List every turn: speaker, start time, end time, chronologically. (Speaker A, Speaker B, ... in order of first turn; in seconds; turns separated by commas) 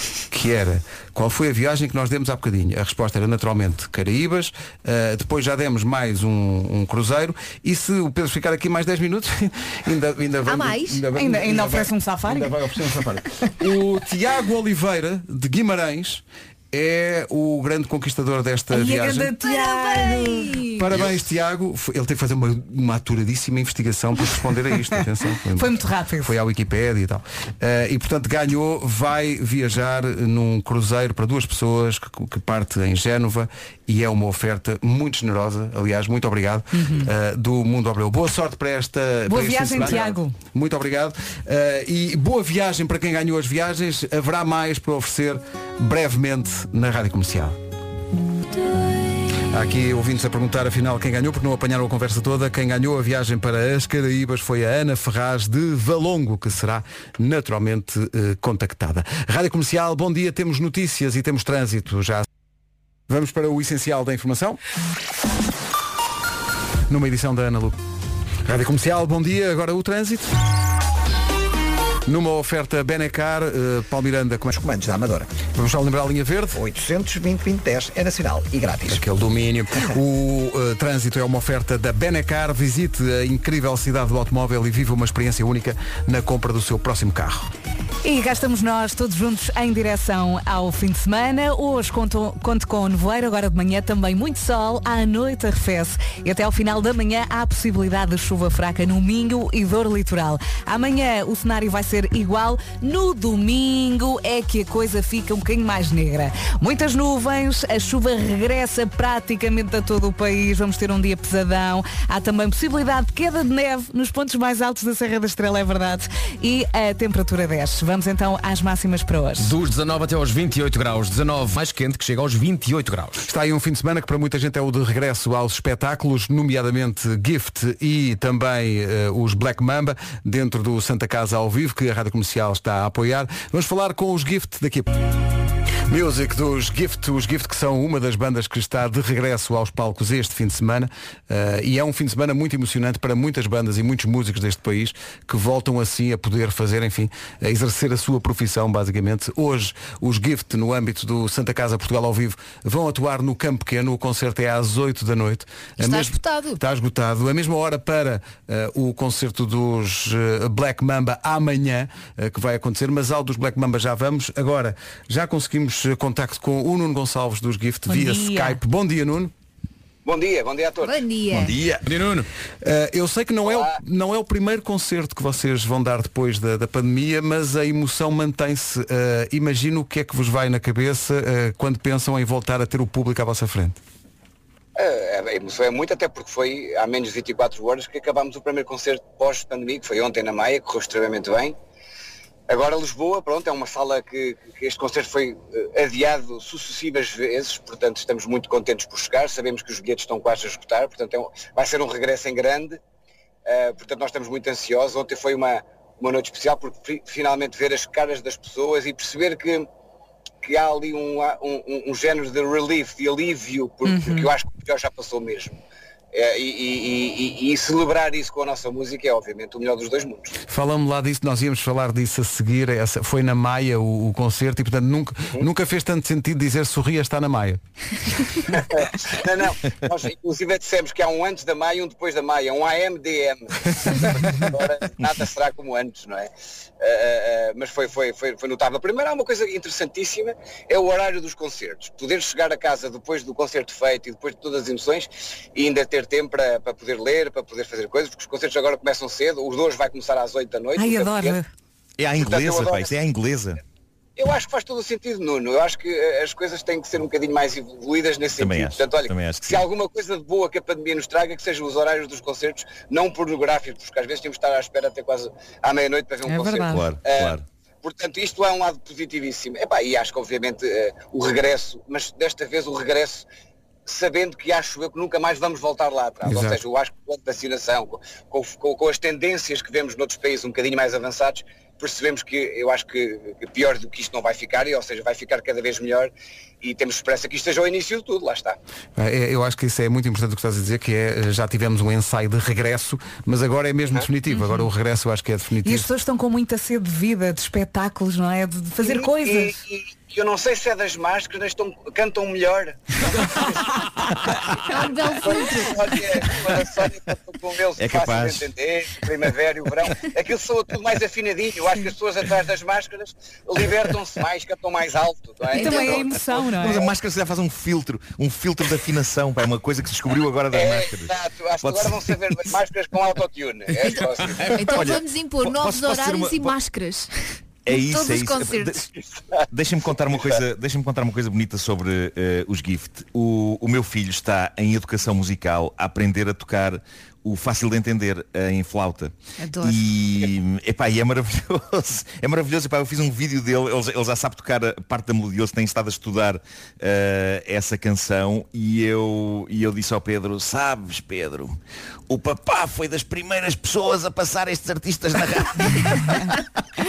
Speaker A: 0.3-19.3, Speaker B: 10.5-11.0, Speaker C: 11.2-12.5, Speaker C: 18.7-20.7, Speaker B: 19.4-20.9, Speaker A: 20.8-47.6, Speaker C: 25.6-26.4, Speaker C: 36.7-37.1, Speaker C: 39.3-40.4, Speaker A: 49.5-62.3, Speaker A: 63.1-64.6, Speaker A: 66.9-67.8, Speaker A: 68.5-70.3, Speaker A: 72.1-74.5, Speaker D: 74.5-75.4, Speaker A: 75.5-76.6, Speaker D: 76.5-79.0, Speaker A: 78.9-87.5, Speaker C: 88.0-119.5, Speaker E: 119.4-123.3, Speaker A: 123.2-134.9, Speaker A: 135.9-169.3, Speaker B: 155.8-156.6, Speaker C: 167.9-168.6, Speaker F: 170.1-171.0, Speaker B: 170.8-171.6, Speaker G: 171.3-171.8, Speaker E: 171.8-172.3, Speaker A: 172.6-183.8, Speaker F: 173.4-173.7, Speaker F: 184.8-191.6, Speaker F: 192.5-202.8, Speaker F: 203.5-209.7, Speaker F: 210.4-215.6, Speaker C: 213.8-214.3, Speaker F: 216.1-220.3, Speaker A: 220.5-227.6, Speaker F: 228.4-251.4, Speaker C: 250.8-251.5, Speaker G: 252.0-253.6, Speaker F: 252.2-252.9, Speaker F: 254.2-273.3, Speaker G: 258.4-259.7, Speaker C: 266.3-266.8, Speaker G: 266.6-267.4, Speaker F: 273.9-288.6, Speaker A: 276.2-276.6, Speaker A: 289.0-295.9, Speaker C: 294.3-294.7, Speaker C: 295.6-299.6, Speaker F: 298.8-304.4, Speaker B: 304.6-306.0, Speaker F: 305.2-316.8, Speaker G: 307.8-308.5, Speaker C: 315.5-316.8, Speaker B: 315.5-315.9, Speaker G: 315.7-322.5, Speaker F: 320.5-324.8, Speaker G: 323.8-326.6, Speaker B: 323.8-327.1, Speaker G: 327.7-328.9, Speaker B: 327.7-328.8, Speaker G: 329.5-351.6, Speaker B: 339.4-339.9, Speaker G: 352.1-356.1